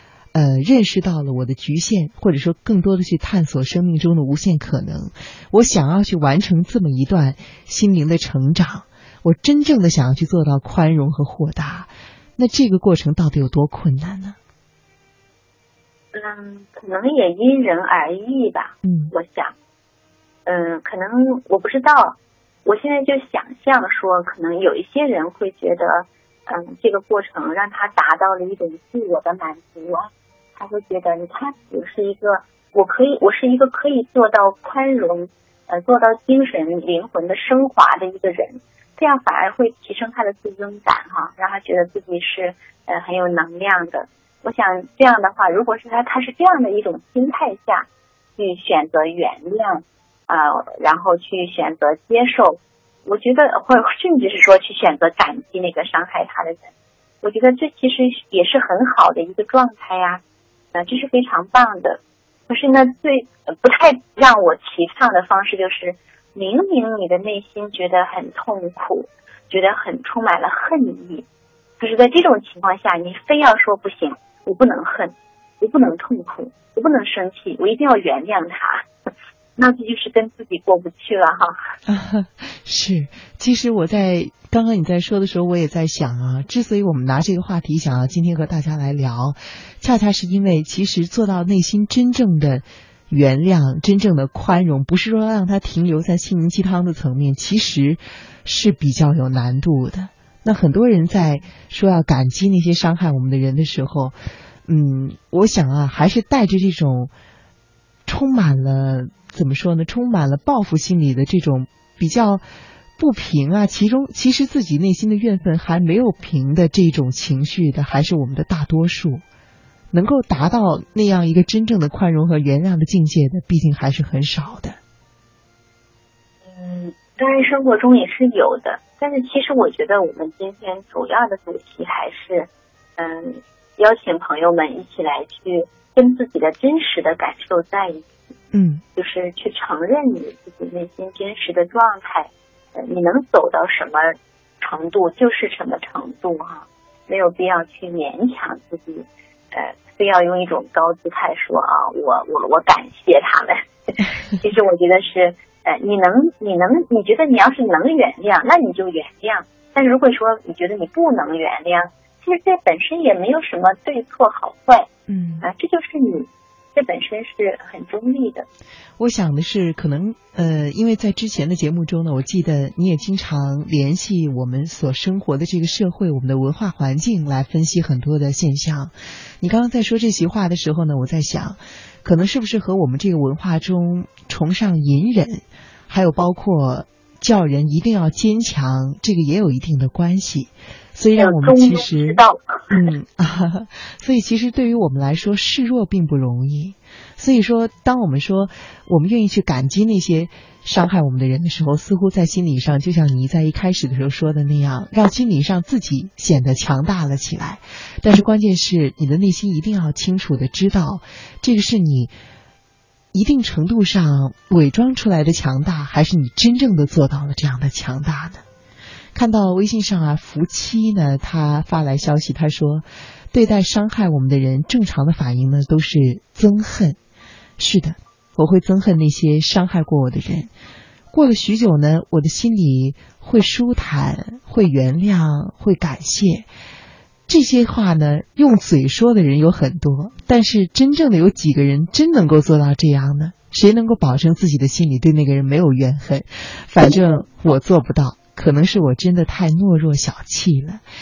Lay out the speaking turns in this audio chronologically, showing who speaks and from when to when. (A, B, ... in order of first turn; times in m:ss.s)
0:00.3-0:14.4 A
0:16.1-0:19.5 B
0:18.8-0:19.1 A
0:20.5-0:47.9 B
0:48.4-0:56.7 B
0:57.2-1:00.2 B
1:00.7-1:11.3 B
1:11.8-1:18.9 B
1:19.6-1:21.6 B
1:21.9-1:47.1 A
1:48.1-1:52.4 A
1:53.0-1:59.2 A
1:59.9-2:04.8 A
2:06.5-2:18.1 B
2:18.5-2:18.8 A
2:19.0-2:44.9 B
2:45.1-2:45.5 A
2:45.4-2:48.5 B
2:49.0-3:32.1 A
3:11.2-3:12.8 B
3:33.1-3:38.4 A
3:39.2-3:47.0 A
3:47.6-3:50.5 A
3:51.1-3:56.5 A
3:57.3-4:10.8 A